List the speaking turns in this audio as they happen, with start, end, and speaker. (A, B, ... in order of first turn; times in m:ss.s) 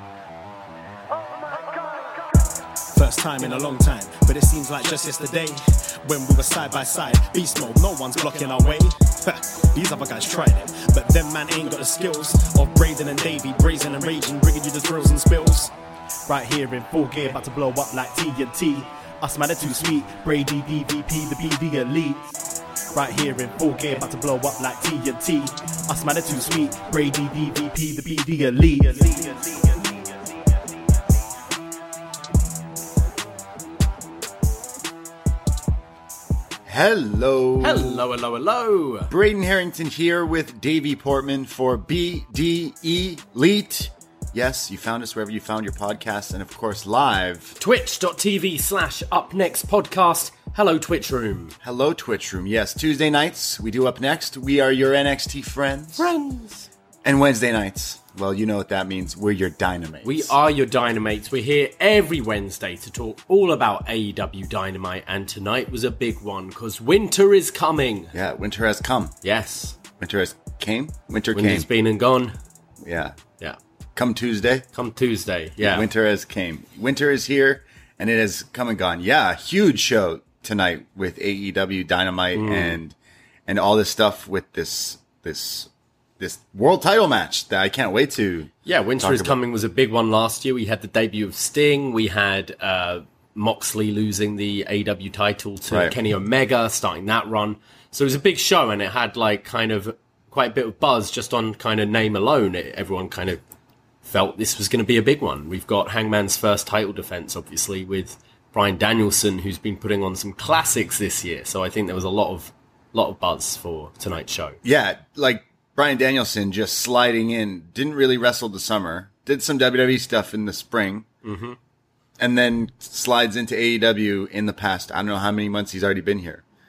0:02.9-0:15.7 A
0:16.3-0:22.3 A
0:22.9-0:29.7 A
0:36.6-0:38.0 B
0:37.6-0:39.1 C
0:39.1-0:47.6 B
0:47.6-0:51.5 C
0:51.6-0:56.1 B
0:56.0-0:56.7 C
0:57.0-1:00.3 B
1:00.0-1:08.1 C
1:08.1-1:09.1 B
1:09.2-1:09.8 C
1:10.0-1:11.7 B
1:11.3-1:12.4 C
1:12.8-1:13.2 B
1:14.0-1:14.6 B
1:14.7-1:15.9 C
1:15.6-1:29.4 B
1:22.3-1:22.8 C
1:28.6-1:43.4 C
1:35.7-1:36.0 B
1:44.0-1:54.6 C
1:54.6-2:01.1 B
2:01.2-2:01.6 C
2:02.2-2:06.4 B